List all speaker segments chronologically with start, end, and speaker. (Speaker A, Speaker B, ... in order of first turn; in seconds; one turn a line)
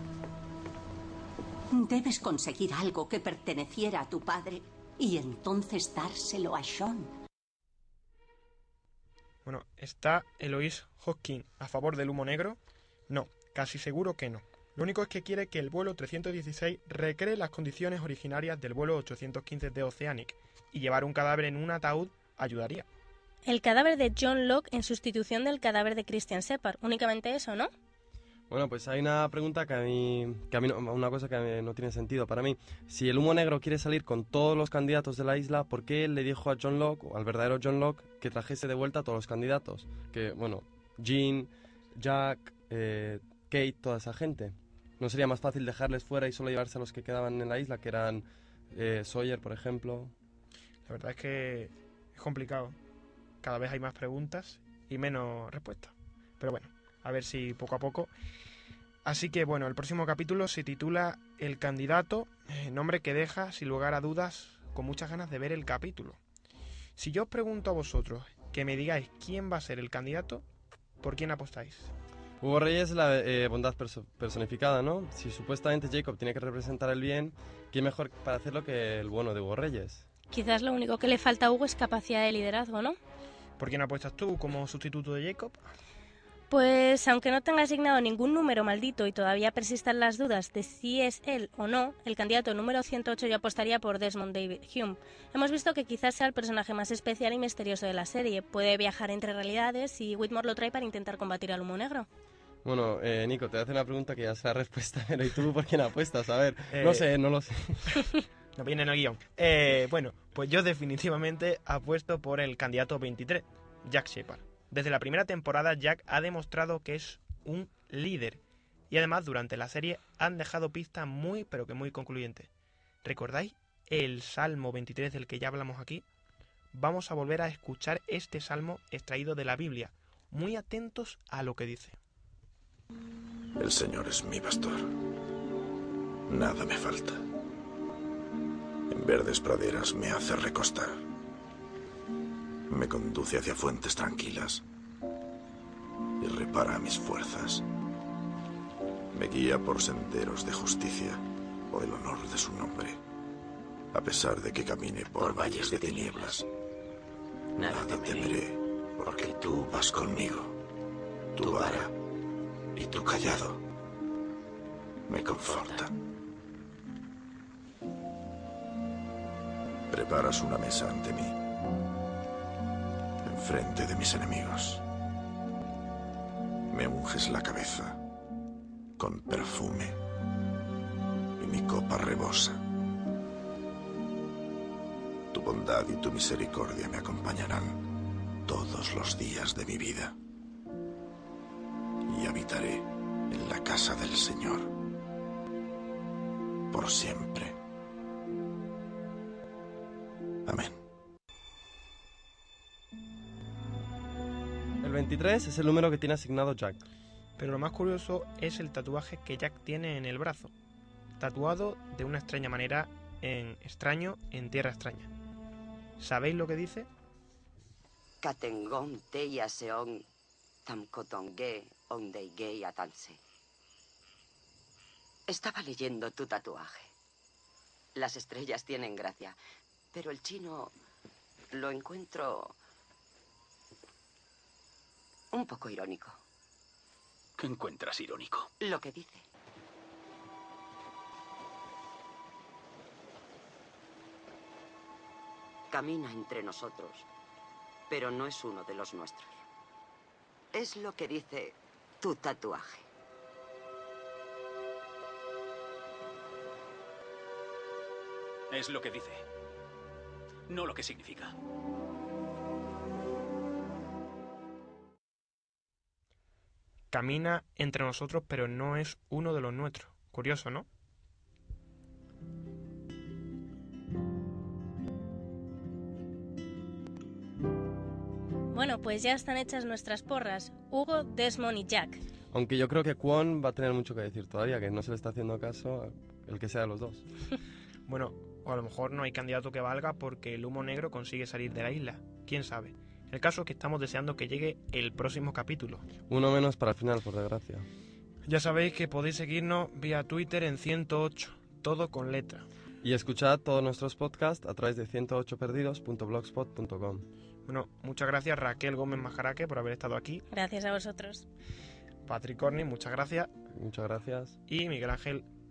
Speaker A: 1.7-7.1
Speaker B: 9.4-22.9
Speaker C: 23.4-27.7
Speaker D: 28.5-50.1
Speaker B: 50.9-52.8
Speaker B: 53.4-58.1
Speaker B: 59.0-66.2
Speaker B: 67.0-70.4
Speaker B: 71.0-71.9
Speaker D: 72.4-80.1
Speaker C: 80.3-83.0
Speaker B: 83.6-85.6
Speaker C: 86.5-102.1
Speaker D: 102.6-107.9
Speaker B: 106.7-107.1
Speaker B: 108.6-122.5
Speaker B: 123.0-126.0
Speaker B: 126.7-132.0
Speaker E: 133.6-134.9
Speaker E: 136.3-137.2
Speaker E: 138.9-141.0
Speaker E: 142.7-144.6
Speaker E: 146.2-147.6
Speaker E: 149.1-153.0
Speaker E: 153.9-156.4
Speaker F: 155.2-156.3
Speaker E: 157.6-160.6
Speaker F: 157.6-158.4
Speaker F: 159.2-159.5
Speaker E: 161.4-161.9
Speaker F: 161.4-161.9
Speaker E: 162.8-163.6
Speaker E: 165.1-165.9
Speaker E: 169.9-171.4
Speaker E: 173.2-174.8
Speaker E: 176.7-178.0
Speaker E: 179.0-180.0
Speaker E: 181.4-182.6
Speaker E: 185.3-187.8
Speaker E: 188.4-190.1
Speaker E: 192.1-194.7
Speaker E: 196.7-197.6
Speaker E: 200.4-200.8
Speaker D: 204.8-206.8
Speaker B: 207.4-210.5
Speaker B: 211.2-215.1
Speaker B: 216.0-216.9
Speaker F: 218.2-220.1
Speaker F: 220.7-223.2
Speaker F: 225.3-226.9
Speaker F: 227.9-229.4
Speaker F: 229.9-230.7
Speaker F: 231.5-232.6
Speaker F: 235.3-236.2
Speaker G: 237.4-238.5
Speaker F: 238.6-239.2
Speaker F: 245.7-247.1
Speaker F: 247.9-249.4
Speaker F: 250.5-252.9
Speaker G: 258.5-259.2
Speaker G: 260.5-261.4
Speaker B: 266.9-270.7
Speaker C: 278.5-282.0
Speaker D: 282.3-287.0
Speaker B: 287.9-295.9
Speaker D: 296.1-297.6
Speaker B: 298.3-302.4
Speaker D: 302.8-307.1
Speaker B: 307.5-310.2
Speaker C: 310.3-311.3
Speaker B: 312.1-313.3
Speaker D: 313.6-314.4
Speaker B: 314.5-315.3